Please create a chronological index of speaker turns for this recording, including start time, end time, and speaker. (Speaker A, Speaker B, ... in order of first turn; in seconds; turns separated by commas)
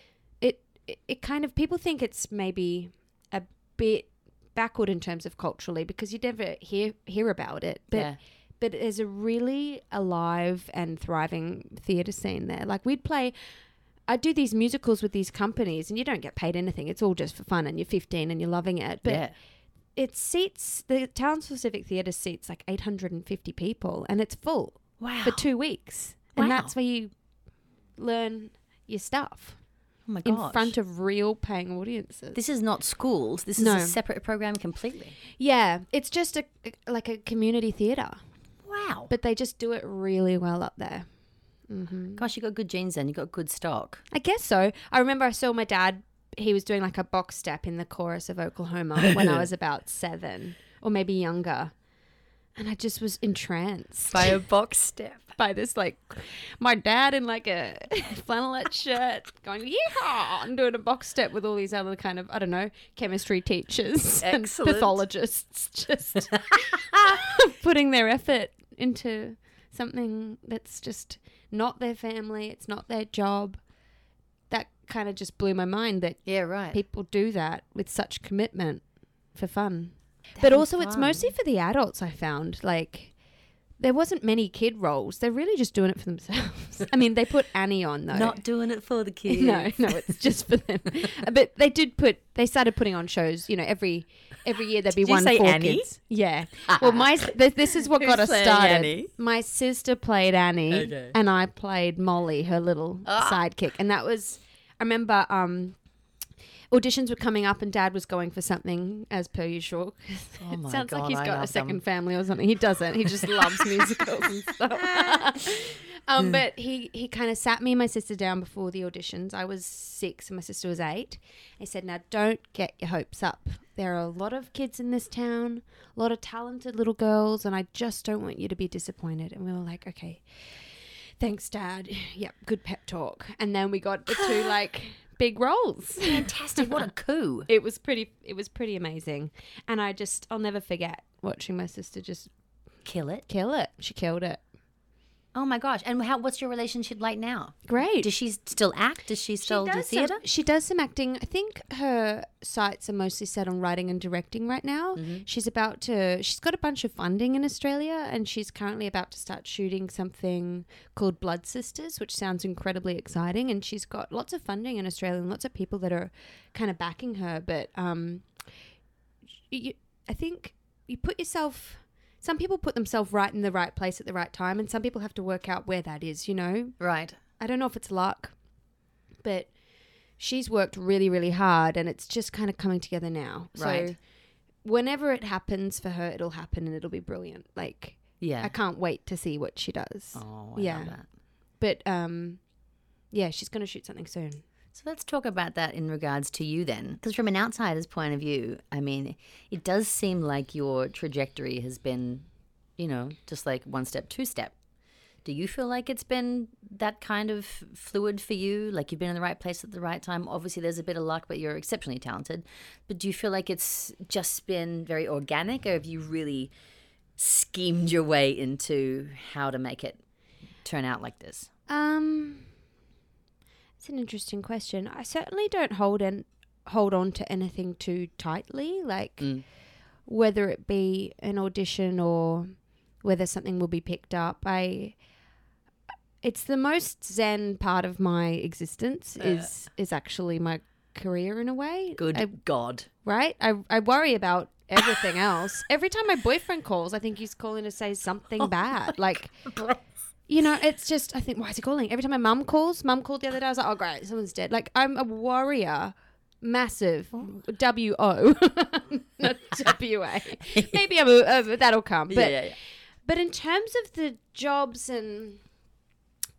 Speaker A: 0.4-13.3, Speaker B: 7.9-8.2, Speaker A: 14.1-19.3, Speaker B: 19.0-19.3, Speaker A: 19.9-27.1, Speaker B: 25.0-25.4, Speaker B: 26.4-26.7, Speaker A: 28.0-29.6, Speaker B: 30.1-30.7, Speaker A: 30.2-32.4, Speaker B: 32.3-35.1, Speaker A: 33.6-34.0, Speaker A: 35.4-38.2, Speaker B: 38.6-39.1, Speaker A: 39.1-41.1, Speaker A: 41.7-42.2, Speaker B: 42.1-44.0, Speaker A: 44.1-51.7, Speaker B: 49.0-49.5, Speaker A: 52.5-54.3, Speaker B: 54.1-55.3, Speaker A: 55.4-73.6, Speaker B: 64.2-65.0, Speaker B: 66.3-67.0, Speaker A: 74.5-78.8, Speaker B: 76.2-76.8, Speaker A: 79.3-83.1, Speaker B: 80.4-81.3, Speaker A: 83.8-88.4, Speaker B: 88.1-90.0, Speaker A: 89.3-105.8, Speaker B: 94.9-95.9, Speaker B: 96.6-97.1, Speaker B: 97.7-99.1, Speaker B: 100.7-101.1, Speaker B: 103.0-103.4, Speaker A: 106.7-130.2, Speaker B: 110.4-111.8, Speaker B: 114.8-115.3, Speaker A: 131.2-136.8, Speaker B: 136.0-137.5, Speaker A: 137.5-142.3, Speaker B: 142.8-143.2, Speaker A: 143.3-144.4, Speaker B: 145.3-150.2, Speaker A: 147.7-148.1, Speaker A: 149.4-168.3, Speaker B: 154.9-155.2, Speaker A: 169.5-176.8, Speaker B: 176.8-177.2, Speaker A: 177.4-178.3, Speaker A: 179.2-179.5, Speaker A: 180.2-184.0, Speaker B: 183.5-183.9, Speaker A: 184.6-190.9, Speaker B: 188.2-188.5, Speaker B: 190.1-191.1, Speaker A: 191.6-192.4, Speaker A: 193.1-194.4, Speaker B: 194.7-202.2, Speaker B: 202.8-204.5, Speaker B: 205.2-216.5, Speaker B: 217.2-220.0, Speaker B: 220.6-221.5, Speaker A: 221.7-222.5, Speaker A: 223.8-229.3, Speaker A: 230.1-235.0, Speaker A: 236.2-242.3, Speaker B: 239.2-239.5, Speaker B: 242.0-242.9, Speaker A: 243.0-249.5, Speaker A: 250.3-262.5, Speaker B: 262.1-262.6, Speaker A: 263.0-265.4